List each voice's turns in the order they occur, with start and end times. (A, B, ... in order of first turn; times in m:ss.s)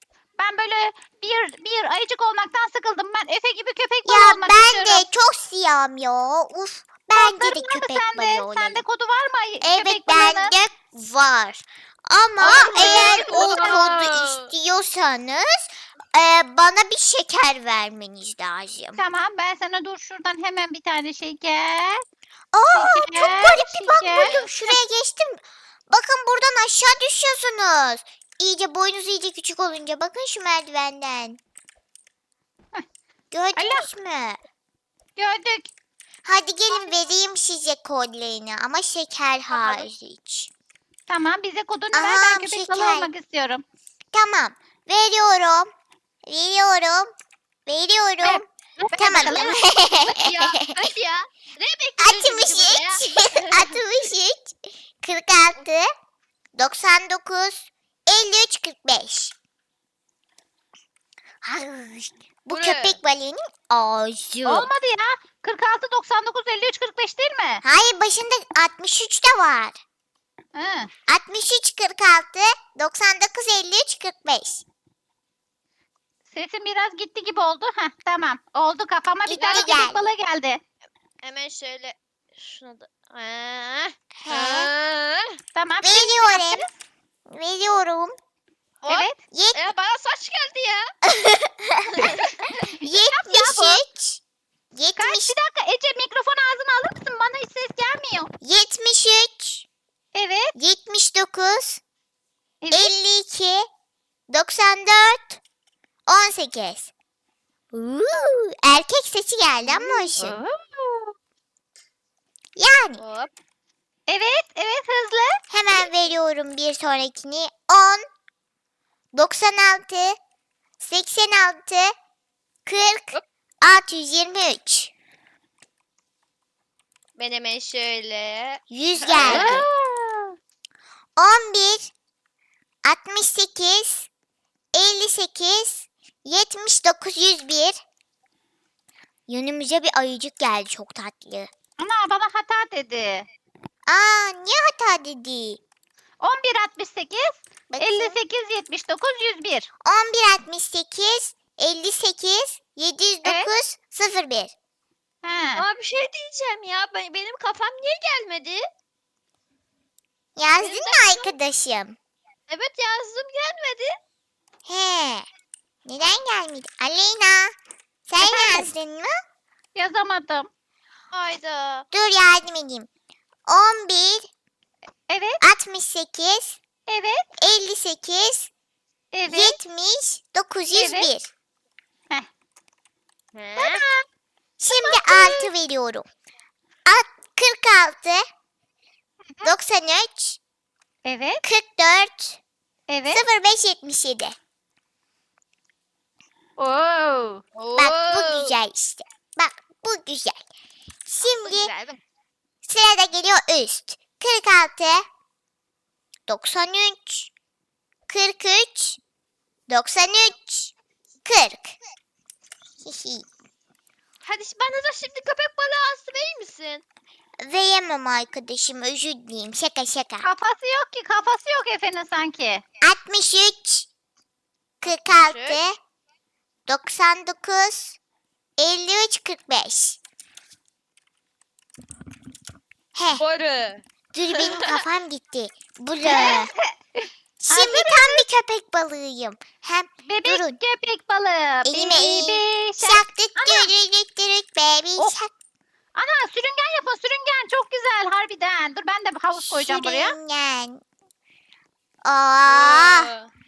0:00.4-0:05.0 A
0:04.0-0:08.8 B
0:07.1-0:10.5 A
0:09.6-0:19.0 B
0:12.4-0:14.5 C
0:12.4-0:13.9 A
0:19.0-0:22.0 A
0:22.5-0:31.4 B
0:22.7-0:24.7 A
0:23.9-0:24.5 C
0:33.3-0:34.4 B
0:33.6-0:33.8 A
0:35.2-0:35.7 A
0:36.2-0:40.5 B
0:39.5-0:39.9 A
0:41.1-0:43.6 A
0:41.9-0:43.1 B
0:44.1-0:45.7 B
0:46.2-0:47.1 B
0:47.6-0:50.9 B
0:48.2-0:49.6 A
0:49.2-0:53.8 C
0:52.0-0:55.9 B
0:56.5-0:59.3 B
1:01.4-1:04.7 B
1:02.5-1:03.0 C
1:04.4-1:07.6 A
1:07.6-1:09.8 B
1:10.5-1:10.9 A
1:11.1-1:14.6 B
1:16.3-1:20.6 A
1:19.2-1:20.0 B
1:19.4-1:19.7 C
1:21.2-1:25.4 C
1:24.2-1:24.7 B
1:25.5-1:26.7 A
1:25.8-1:26.7 B
1:27.3-1:28.2 B
1:28.8-1:30.9 C
1:28.9-1:29.2 A
1:29.3-1:29.7 B
1:31.0-1:32.1 B
1:31.9-1:32.5 C
1:32.8-1:34.2 B
1:32.8-1:33.8 A
1:34.7-1:35.3 B
1:35.0-1:38.3 A
1:38.4-1:39.6 B
1:40.1-1:40.5 A
1:40.5-1:41.8 B
1:42.6-1:42.9 A
1:42.7-1:43.7 B
1:44.3-1:45.4 B
1:46.1-1:46.9 B
1:47.7-1:50.4 B
1:49.8-1:51.1 A
1:49.9-1:50.3 C
1:52.6-1:53.0 B
1:53.0-1:53.3 C
1:54.1-1:55.4 A
1:55.5-1:58.0 B
1:59.1-2:00.2 B
2:00.8-2:01.9 B
2:02.6-2:04.9 B
2:07.2-2:10.3 C
2:08.7-2:09.7 B
2:09.2-2:09.7 A
2:11.2-2:11.9 B
2:12.8-2:14.1 B
2:14.7-2:17.8 B
2:19.3-2:21.5 B
2:21.8-2:23.3 A
2:23.9-2:25.6 B
2:26.2-2:29.7 A
2:27.7-2:28.2 B
2:29.8-2:34.5 B
2:33.2-2:33.5 A
2:35.2-2:35.6 A
2:35.5-2:38.6 C
2:40.4-2:42.0 B
2:40.6-2:41.4 C
2:42.5-2:44.0 C
2:44.6-2:45.3 B
2:45.8-2:47.6 B
2:48.1-2:49.1 B
2:48.2-2:48.7 A
2:49.7-2:50.5 A
2:51.1-2:51.9 C
2:51.9-2:52.9 B
2:53.5-2:54.3 B
2:55.1-2:55.4 A
2:55.4-2:56.6 B
2:56.9-2:57.2 A
2:57.4-2:58.5 B
2:59.1-2:59.6 A
2:59.3-3:01.3 B
3:00.7-3:01.1 A
3:03.3-3:03.8 C
3:03.6-3:04.0 A
3:04.6-3:06.0 B
3:04.7-3:05.5 A
3:06.8-3:08.2 B
3:09.4-3:10.4 B
3:11.0-3:11.4 A
3:11.4-3:12.4 B
3:12.9-3:13.2 A
3:13.1-3:14.4 B
3:16.6-3:17.4 A
3:17.6-3:18.6 C
3:17.7-3:20.4 B
3:21.0-3:21.7 B
3:21.2-3:22.0 C
3:22.6-3:25.0 B
3:26.3-3:27.3 B
3:28.1-3:29.0 B
3:29.7-3:30.7 B
3:31.2-3:31.8 B
3:32.8-3:33.2 B
3:34.2-3:36.8 C
3:37.4-3:40.3 B
3:40.2-3:42.6 A
3:42.8-3:43.9 B
3:44.8-3:45.8 B
3:44.8-3:45.6 C
3:46.7-3:48.0 B
3:48.6-3:50.0 B
3:52.9-3:53.2 B
3:53.2-3:54.8 C
3:54.1-3:56.5 B
3:56.0-3:58.2 A
3:57.4-4:00.6 B
4:00.1-4:03.7 A
4:01.6-4:05.3 B
4:05.9-4:10.1 A
4:09.3-4:10.8 B
4:12.0-4:13.1 B
4:12.4-4:13.3 C